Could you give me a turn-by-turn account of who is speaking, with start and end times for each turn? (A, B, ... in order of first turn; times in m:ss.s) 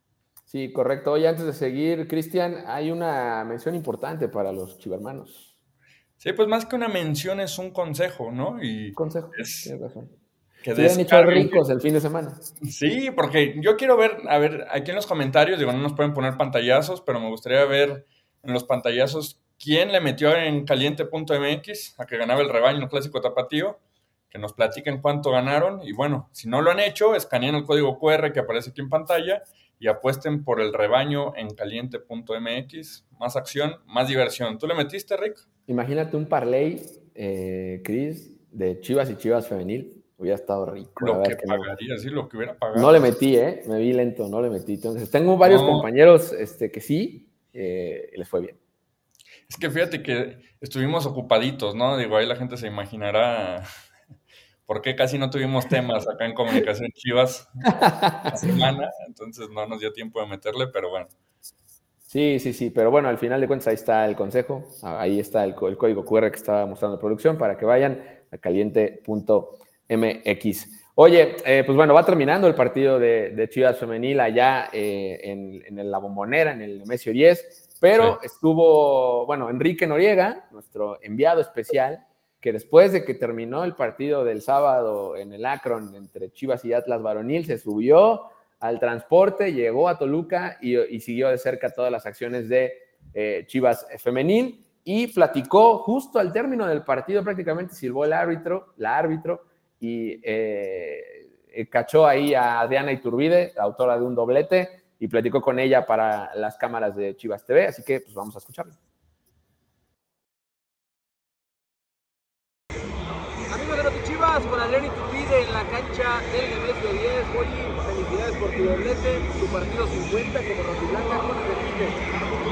0:00.5-0:05.5 A
0:06.2-0:09.7 B
0:09.0-0:10.1 A
0:10.6-0:11.6 B
0:10.8-0:12.4 A
0:12.6-0:35.4 B
0:35.7-0:41.7 A
0:41.0-0:43.1 B
0:42.7-0:48.6 A
0:45.4-0:45.9 B
0:49.5-0:53.7 B
0:54.7-0:57.7 B
0:57.8-0:58.5 A
0:58.3-1:01.1 B
1:02.1-1:48.8 A
1:53.5-2:02.0 C